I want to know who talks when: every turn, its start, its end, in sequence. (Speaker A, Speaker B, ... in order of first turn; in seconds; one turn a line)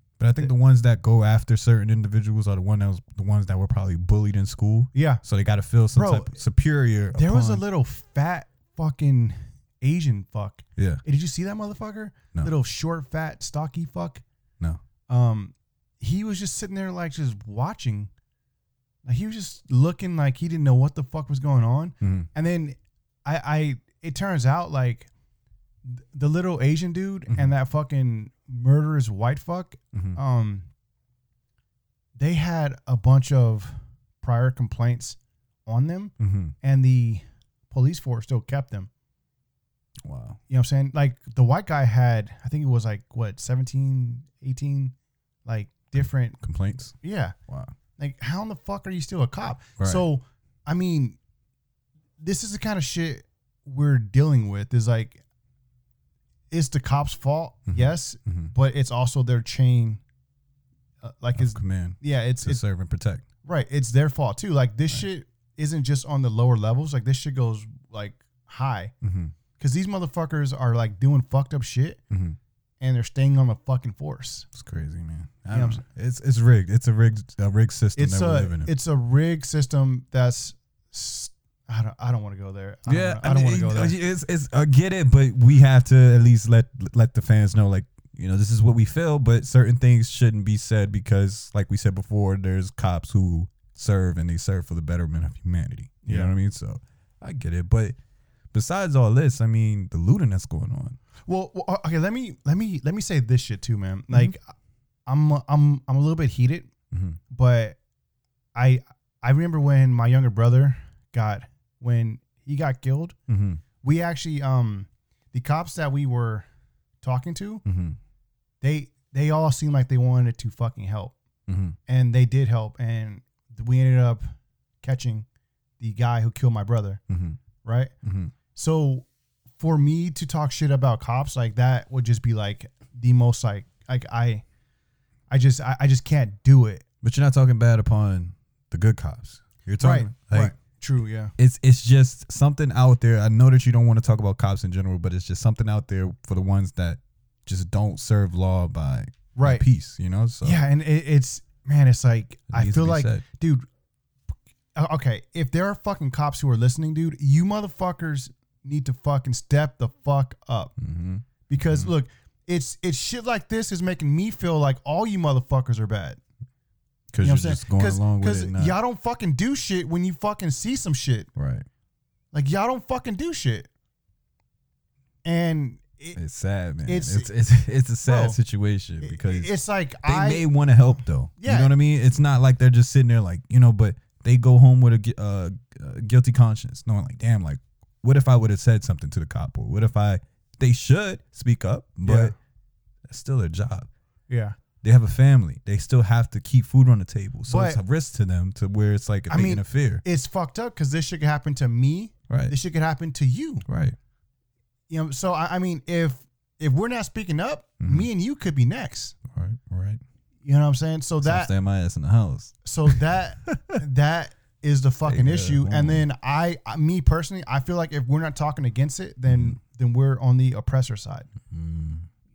Speaker A: 0.2-7.6
Speaker B: 4.9-5.2
Speaker B: 5.9-6.4
Speaker B: 7.1-14.2
Speaker A: 10.8-11.0
Speaker B: 15.1-18.1
Speaker B: 19.0-25.1
Speaker A: 22.0-22.3
Speaker B: 25.9-30.7
Speaker B: 32.1-38.9
Speaker A: 36.2-36.5
Speaker A: 40.0-40.4
Speaker B: 40.5-46.4
Speaker A: 46.4-47.0
Speaker B: 47.0-47.3
Speaker A: 47.5-47.7
Speaker B: 48.0-51.2
Speaker A: 49.8-50.0
Speaker B: 52.2-55.2
Speaker B: 56.5-60.0
Speaker A: 57.7-58.5
Speaker B: 61.0-62.6
Speaker A: 61.3-63.2
Speaker B: 63.4-68.9
Speaker A: 69.0-69.3
Speaker B: 69.6-72.0
Speaker A: 72.1-72.4
Speaker B: 72.8-74.5
Speaker A: 74.5-78.7
Speaker B: 75.5-75.8
Speaker B: 78.0-83.9
Speaker A: 82.9-98.0
Speaker B: 96.0-96.3
Speaker A: 98.5-101.0
Speaker B: 101.2-104.5
Speaker B: 105.1-106.7
Speaker A: 106.9-107.2
Speaker B: 107.3-107.8
Speaker B: 108.5-113.2
Speaker A: 113.3-113.6
Speaker B: 113.8-116.5
Speaker B: 117.0-117.6
Speaker A: 117.6-118.0
Speaker B: 118.6-121.2
Speaker A: 121.5-121.8
Speaker B: 121.9-124.2
Speaker B: 124.8-125.3
Speaker B: 125.8-127.0
Speaker A: 127.1-127.4
Speaker B: 127.6-127.9
Speaker A: 128.0-128.3
Speaker B: 128.5-129.1
Speaker B: 129.6-134.4
Speaker B: 135.3-136.8
Speaker A: 137.0-140.5
Speaker B: 139.8-141.3
Speaker A: 141.4-150.6
Speaker B: 149.3-149.7
Speaker B: 150.4-153.6
Speaker A: 152.5-153.2
Speaker B: 154.8-160.7
Speaker A: 160.8-161.9
Speaker B: 161.5-166.2
Speaker A: 167.1-168.8
Speaker B: 167.2-171.3
Speaker A: 171.3-171.7
Speaker B: 172.3-173.7
Speaker B: 175.2-176.2
Speaker A: 176.1-179.5
Speaker B: 176.8-177.3
Speaker B: 178.0-178.4
Speaker B: 179.0-180.5
Speaker A: 180.0-192.3
Speaker B: 181.4-181.7
Speaker B: 192.0-192.3
Speaker A: 193.1-193.9
Speaker B: 194.3-194.6
Speaker A: 194.8-200.0
Speaker B: 197.5-197.8
Speaker B: 199.3-203.6
Speaker A: 202.3-202.5
Speaker A: 203.7-204.0
Speaker B: 204.9-209.2
Speaker A: 207.8-208.1
Speaker A: 209.3-210.0
Speaker B: 210.4-211.5
Speaker A: 211.2-213.8
Speaker B: 212.6-221.3
Speaker A: 215.0-216.1
Speaker A: 219.3-219.6
Speaker A: 221.4-222.1